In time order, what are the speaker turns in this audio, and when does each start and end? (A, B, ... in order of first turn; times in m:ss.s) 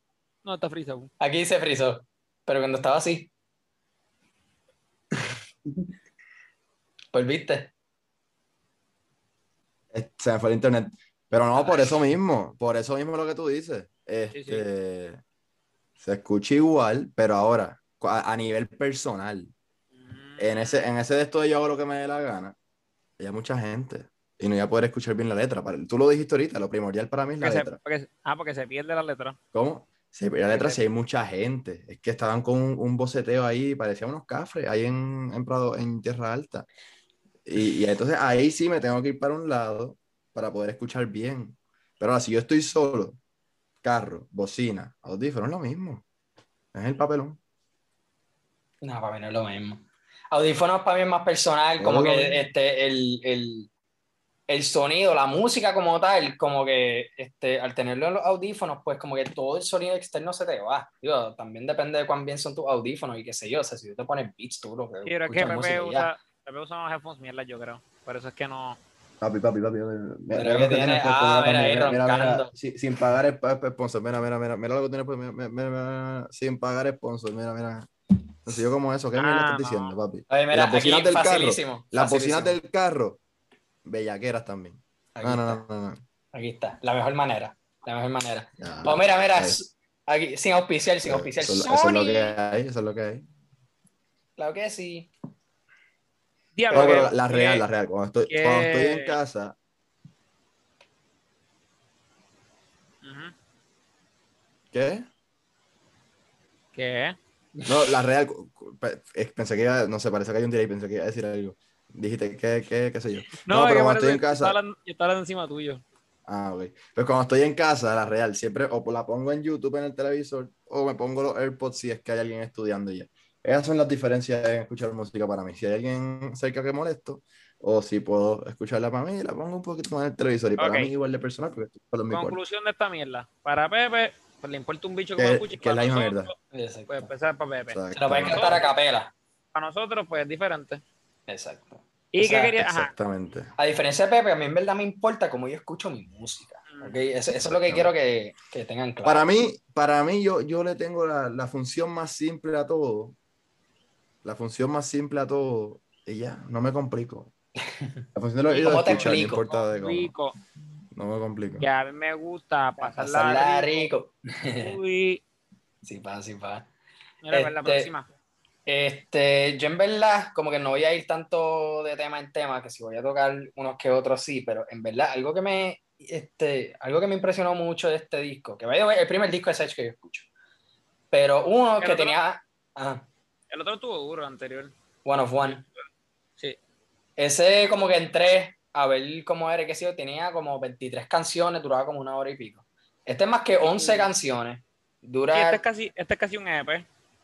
0:00.4-0:01.1 A
0:01.2-0:03.3 B
0:07.1-0:07.7 B
0:09.9-0:15.2 C
0:14.3-0:14.6 A
0:16.0-0:19.5 C
0:20.0-0:20.9 A
0:20.4-0:22.6 C
0:23.2-0:27.8 C
0:27.4-0:29.4 A
0:29.5-0:36.7 C
0:37.5-0:43.2 C
0:43.8-0:46.0 C
0:46.7-0:47.4 C
0:48.8-0:53.7 B
0:51.8-0:52.4 C
0:54.5-1:06.1 B
1:05.1-1:08.8 A
1:09.2-1:17.9 C
1:10.3-1:12.5 B
1:18.4-1:23.2 C
1:19.2-1:19.9 A
1:20.3-1:22.6 B
1:23.8-1:26.0 C
1:25.2-1:25.6 B
1:26.3-1:32.4 B
1:28.6-1:29.6 C
1:31.0-1:33.2 C
1:34.4-1:35.1 B
1:36.6-1:37.6 A
1:36.7-1:37.1 B
1:36.7-1:39.6 C
1:38.3-1:39.2 A
1:43.0-1:43.3 A
1:44.7-1:45.1 C
1:46.7-1:47.2 A
1:47.7-1:54.6 C
1:53.4-1:55.8 A
1:56.3-2:12.4 C
2:10.6-2:10.9 A
2:12.1-2:16.4 A
2:15.2-2:16.3 C
2:16.5-2:17.1 B
2:16.9-2:18.8 A
2:17.7-2:18.6 C
2:17.9-2:19.1 B
2:19.5-2:20.8 A
2:21.3-2:22.6 B
2:22.1-2:22.9 A
2:22.5-2:23.5 C
2:23.6-2:29.3 B
2:26.7-2:27.0 A
2:27.4-2:27.9 C
2:29.0-2:33.2 C
2:34.2-2:37.3 C
2:37.7-2:38.0 B
2:38.2-2:40.1 C
2:38.5-2:40.4 A
2:38.6-2:39.5 B
2:40.9-2:41.7 C
2:41.6-2:43.9 A
2:42.8-2:44.8 B
2:44.6-2:45.2 A
2:45.8-2:46.7 B
2:47.2-2:48.1 A
2:47.3-2:47.9 B
2:48.7-3:00.3 B
3:01.1-3:03.1 B
3:01.8-3:02.2 A
3:03.5-3:04.7 A
3:05.0-3:05.6 B
3:07.2-3:15.6 B
3:13.6-3:14.1 A
3:15.3-3:16.9 A